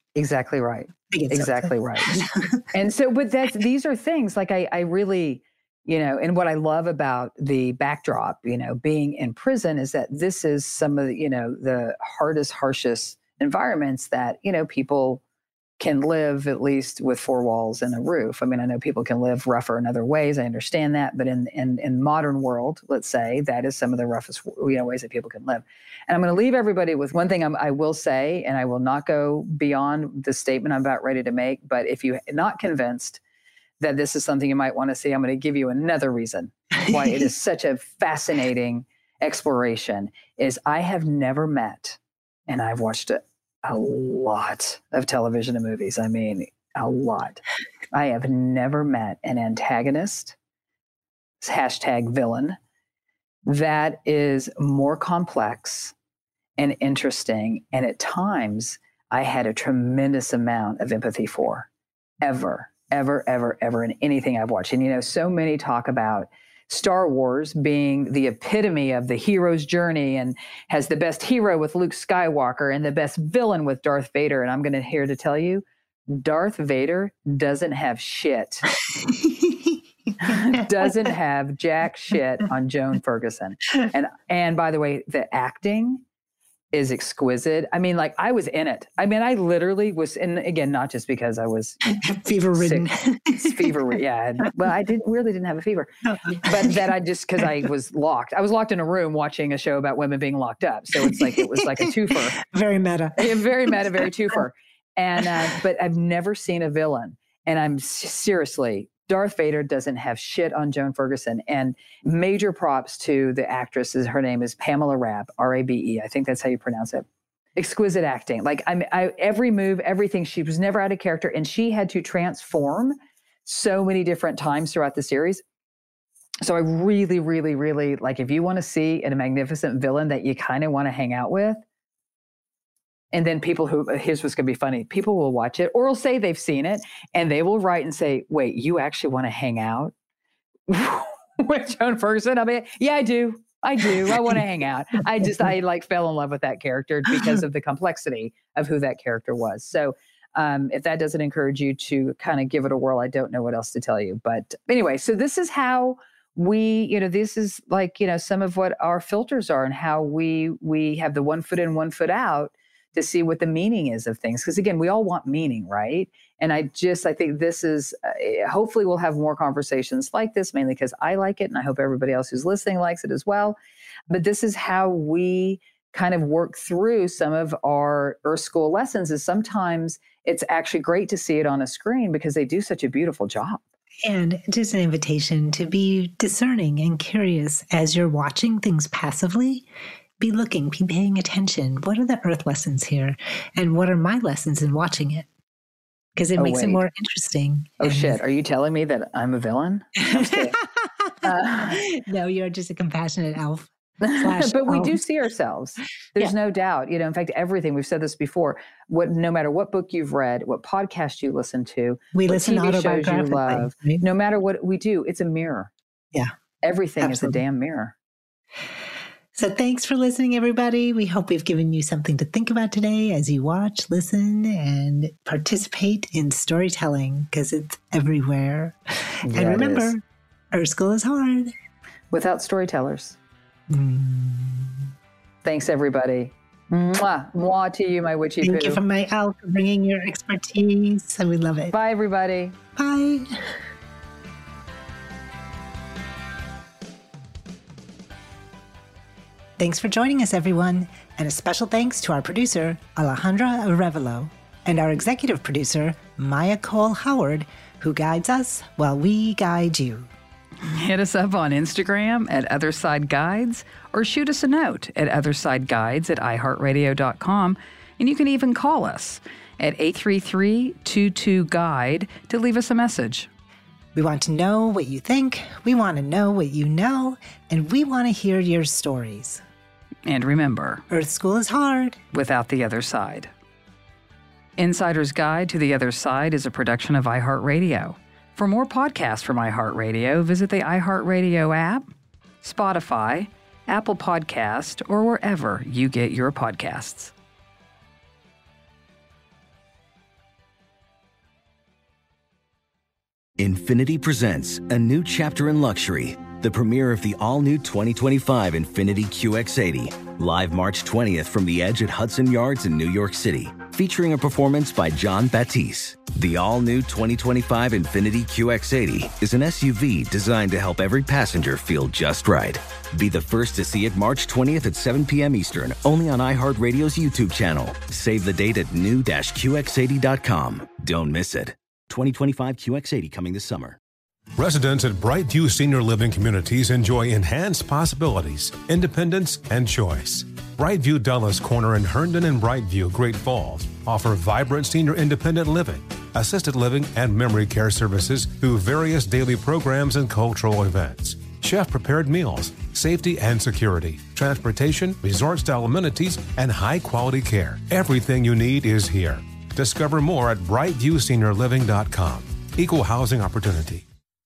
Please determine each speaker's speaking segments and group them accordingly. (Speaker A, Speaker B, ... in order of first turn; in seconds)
Speaker A: 0.1-2.2, 2.7-15.2, 15.8-33.2, 33.8-47.4, 47.9-50.4, 51.4-52.6, 53.4-55.9, 56.6-61.7, 62.2-78.7, 80.2-86.0, 86.7-91.9, 92.5-102.4, 103.2-125.4, 126.4-131.6, 133.1-139.9, 140.7-173.6, 174.1-183.6, 196.4-196.9, 197.8-200.6, 201.2-201.8, 204.0-215.7, 216.6-217.9, 229.2-229.9, 232.1-233.2, 235.4-238.8, 241.7-242.5, 260.6-273.3, 280.1-280.8, 282.1-283.3, 284.6-291.9, 292.4-297.1
Speaker B: 1.1-2.6, 78.8-80.9, 91.8-93.8, 96.0-96.8, 101.0-104.0, 144.1-144.4, 147.1-147.4, 184.0-189.7, 190.2-195.3, 196.2-198.2, 200.0-205.0, 212.1-214.0, 217.0-217.4, 219.3-231.5, 233.7-234.9, 238.4-241.7, 242.8-243.6, 249.6-260.1, 273.9-279.4, 280.9-282.0
Speaker C: 303.4-333.8
Speaker D: 334.4-363.8